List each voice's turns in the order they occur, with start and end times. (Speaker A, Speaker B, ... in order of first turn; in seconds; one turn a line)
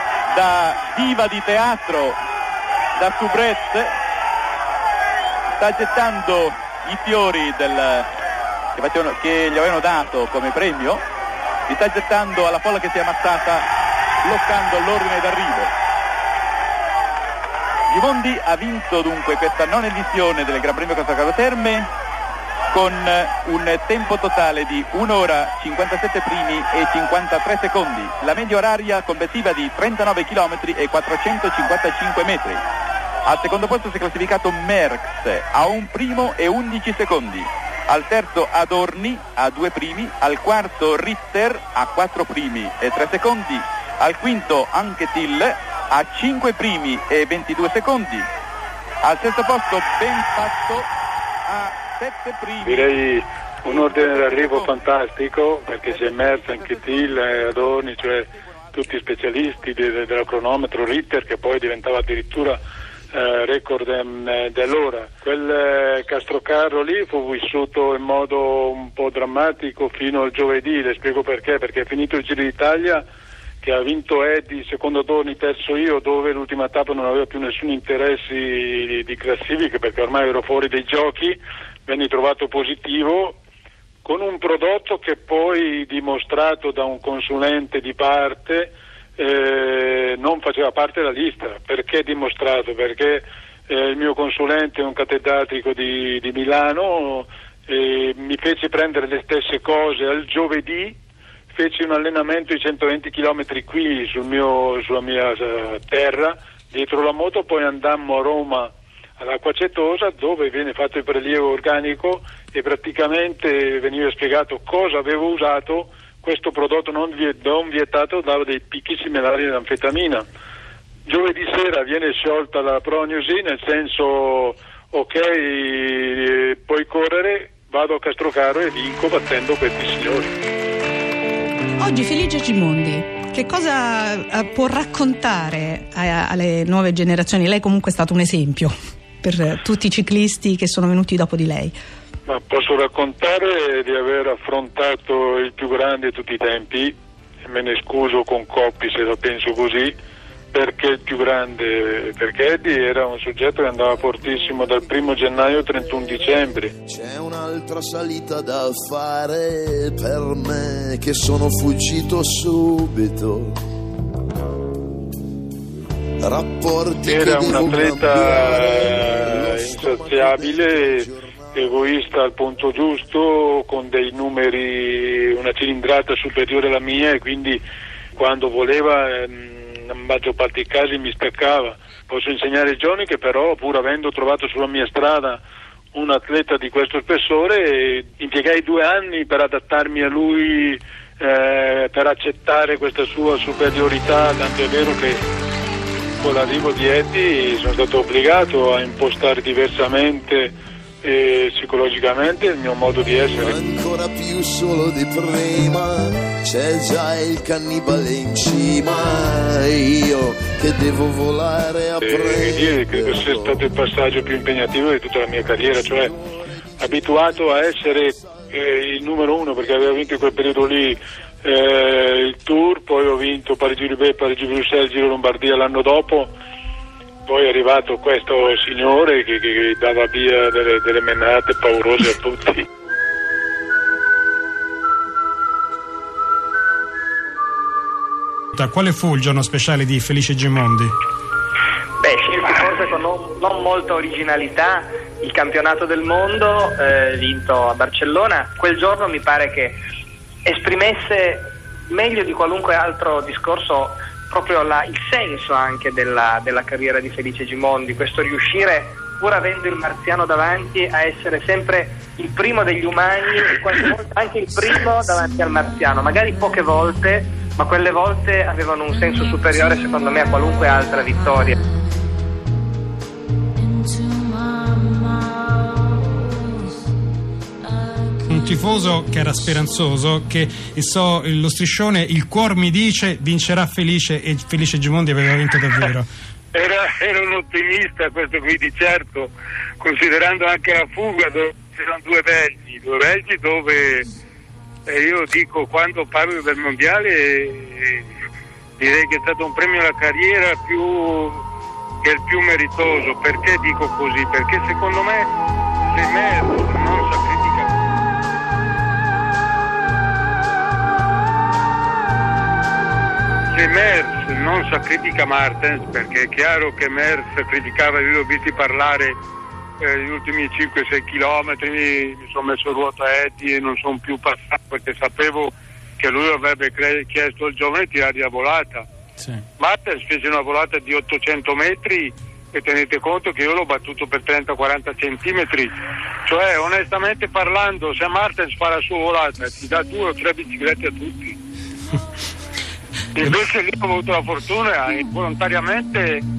Speaker A: 0.3-2.2
Speaker A: 3.0-3.9
Speaker A: 5.6-8.1
Speaker A: 8.8-11.0
Speaker A: 11.7-13.7
Speaker A: 14.2-15.7
Speaker A: 17.9-21.9
Speaker A: 22.7-32.6
Speaker A: 33.2-48.3
Speaker A: 49.0-50.9
Speaker A: 51.5-52.9
Speaker B: 52.6-62.6
Speaker A: 53.7-54.7
Speaker B: 63.1-73.0
Speaker B: 73.6-83.3
Speaker B: 84.0-101.0
Speaker B: 101.5-108.7
Speaker B: 109.2-120.2
Speaker B: 121.1-130.3
Speaker C: 131.8-141.8
Speaker B: 142.3-146.9
Speaker B: 147.5-149.9
Speaker B: 150.5-156.7
Speaker D: 156.9-163.6
Speaker D: 166.2-171.3
Speaker B: 167.1-171.1
Speaker B: 171.6-177.6
Speaker B: 178.2-185.4
Speaker B: 185.9-195.2
Speaker B: 196.2-200.5
Speaker B: 201.0-203.6
Speaker D: 203.2-213.7
Speaker B: 212.0-216.1
Speaker D: 215.7-216.2
Speaker D: 216.8-218.2
Speaker B: 216.8-226.3
Speaker B: 227.3-232.6
Speaker E: 238.5-240.9
Speaker F: 242.0-249.8
Speaker F: 250.5-271.6
Speaker E: 278.3-286.1
Speaker G: 286.5-294.1
Speaker G: 294.9-298.0
Speaker G: 298.8-301.4
Speaker G: 302.0-305.3
Speaker G: 305.9-307.7
Speaker G: 313.5-319.2
Speaker G: 319.8-328.9
Speaker G: 329.6-335.7
Speaker G: 336.3-341.4
Speaker G: 343.2-346.2